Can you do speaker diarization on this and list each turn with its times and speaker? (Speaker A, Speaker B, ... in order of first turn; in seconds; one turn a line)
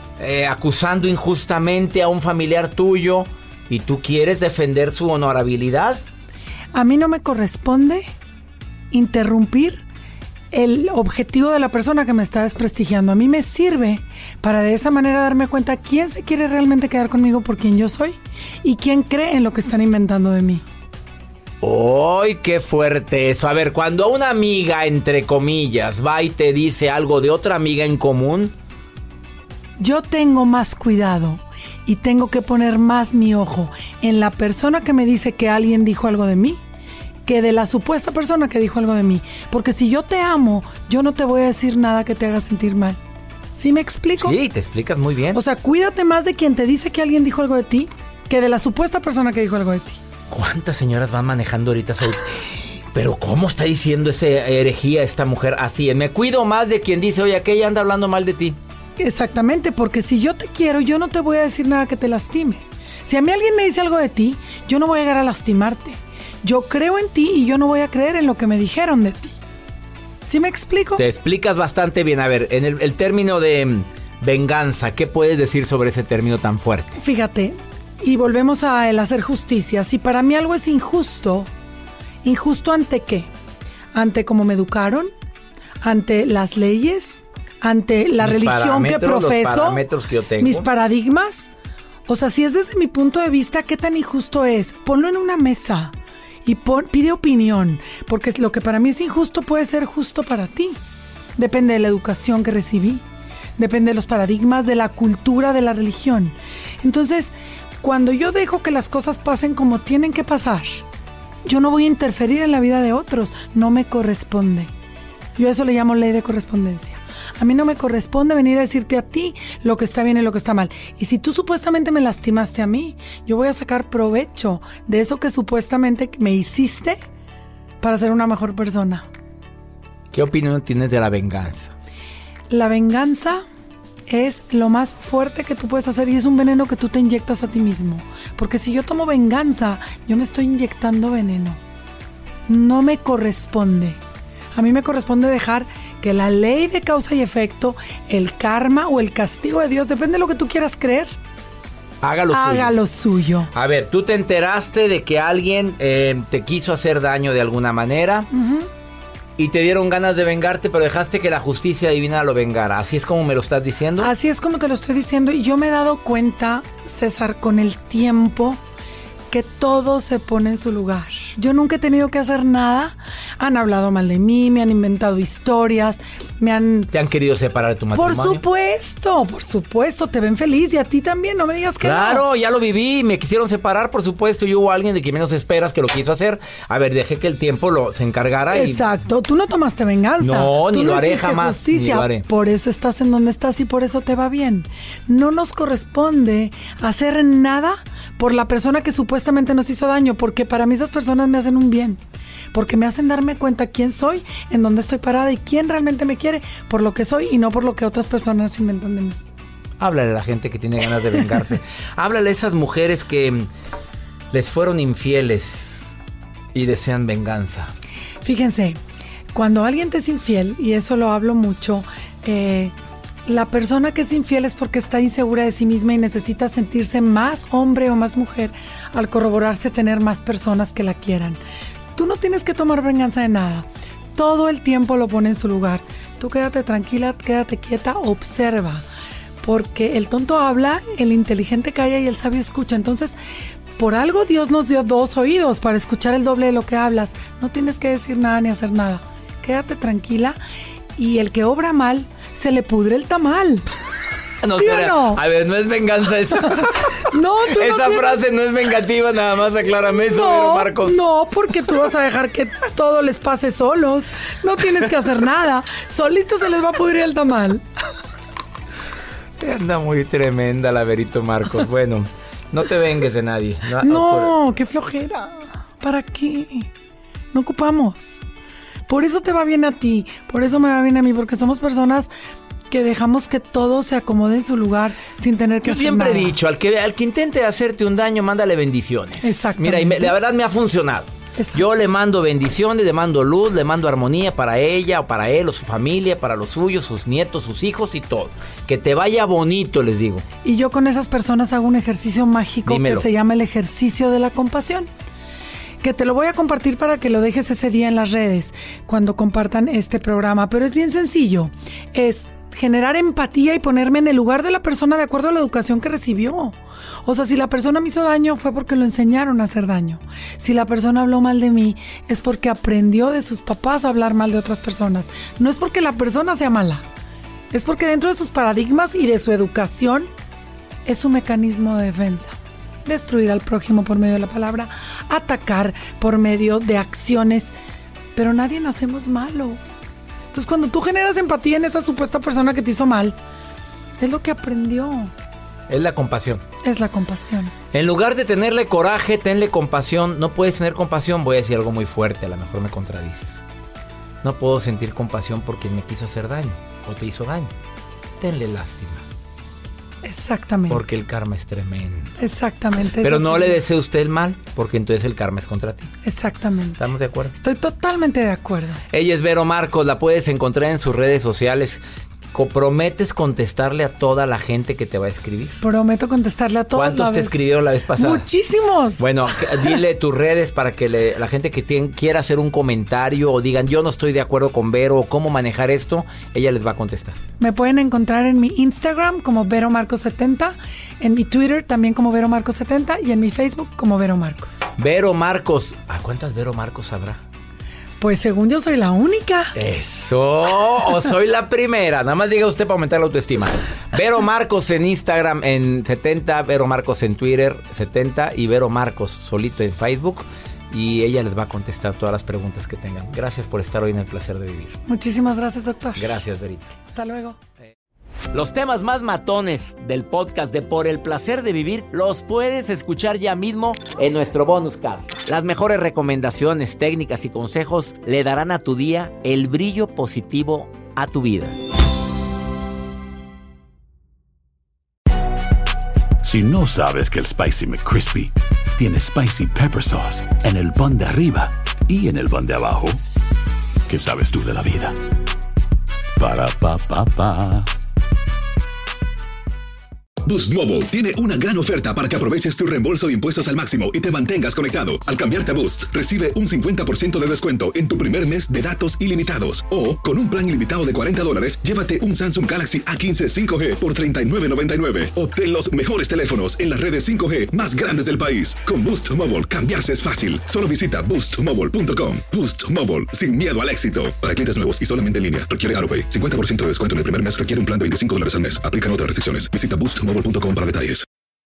Speaker A: 0.2-6.0
Speaker B: 6.7-8.0
Speaker B: 8.9-9.8
Speaker B: 10.5-20.6
Speaker A: 21.6-28.5
Speaker B: 29.8-36.6
Speaker B: 37.2-43.0
Speaker B: 43.5-44.4
Speaker A: 44.2-45.4
Speaker B: 45.3-50.0
Speaker A: 50.3-58.6
Speaker B: 59.0-69.3
Speaker B: 70.3-71.0
Speaker A: 71.0-77.0
Speaker B: 77.0-81.5
Speaker B: 82.2-83.3
Speaker B: 83.9-85.1
Speaker B: 85.8-89.8
Speaker A: 88.2-90.7
Speaker B: 90.4-91.5
Speaker B: 92.1-100.8
Speaker B: 101.4-103.0
Speaker B: 103.6-110.8
Speaker B: 111.4-114.7
Speaker B: 115.3-127.0
Speaker B: 127.8-129.1
Speaker A: 130.1-131.7
Speaker B: 132.5-133.4
Speaker B: 134.1-141.6
Speaker B: 142.5-144.0
Speaker B: 144.5-151.1
Speaker A: 152.0-152.8
Speaker B: 152.3-153.5
Speaker A: 153.5-158.3
Speaker B: 158.3-158.7
Speaker A: 159.4-164.1
Speaker B: 164.0-168.6
Speaker B: 169.3-176.9
Speaker A: 176.9-178.4
Speaker B: 177.9-182.2
Speaker A: 181.8-188.9
Speaker B: 188.5-202.0
Speaker A: 190.2-192.2
Speaker B: 202.5-209.2
Speaker A: 209.8-213.5
Speaker A: 214.3-215.9
Speaker A: 216.5-217.7
Speaker B: 218.2-218.8
Speaker B: 219.3-222.7
Speaker B: 223.2-231.4
Speaker B: 231.9-238.8
Speaker B: 239.4-243.2
Speaker B: 243.8-250.4
Speaker B: 251.0-253.7
Speaker A: 254.4-261.1
Speaker B: 254.5-255.2
Speaker B: 257.1-258.2
Speaker B: 259.8-267.6
Speaker A: 269.4-274.4
Speaker B: 273.8-276.7
Speaker B: 277.3-278.2
Speaker B: 278.9-282.1
Speaker B: 282.7-286.4
Speaker A: 285.6-300.2
Speaker B: 289.2-290.1
Speaker B: 291.4-291.7
Speaker B: 300.4-304.9
Speaker A: 302.6-303.1
Speaker B: 305.8-326.8
Speaker B: 327.5-330.1
Speaker B: 330.9-337.5
Speaker B: 338.1-343.1
Speaker B: 344.0-345.1
Speaker A: 345.7-346.4
Speaker B: 346.6-347.5
Speaker A: 347.7-353.4
Speaker A: 354.2-357.5
Speaker A: 358.2-359.0
Speaker B: 360.0-360.8
Speaker A: 360.7-362.1
Speaker B: 362.2-363.6
Speaker A: 363.0-365.9
Speaker B: 366.0-368.8
Speaker A: 366.8-367.4
Speaker A: 368.9-371.8
Speaker A: 372.3-375.6
Speaker B: 375.6-377.4
Speaker A: 376.7-378.2
Speaker B: 377.9-379.8
Speaker A: 379.0-387.2
Speaker B: 387.4-394.7
Speaker A: 394.8-397.2
Speaker B: 398.0-399.5
Speaker A: 399.6-414.8
Speaker B: 414.9-416.1
Speaker A: 415.9-416.8
Speaker B: 416.9-417.4
Speaker A: 418.3-431.6
Speaker C: 436.2-443.0
Speaker C: 443.9-444.9
Speaker C: 446.2-447.7
Speaker D: 450.2-481.1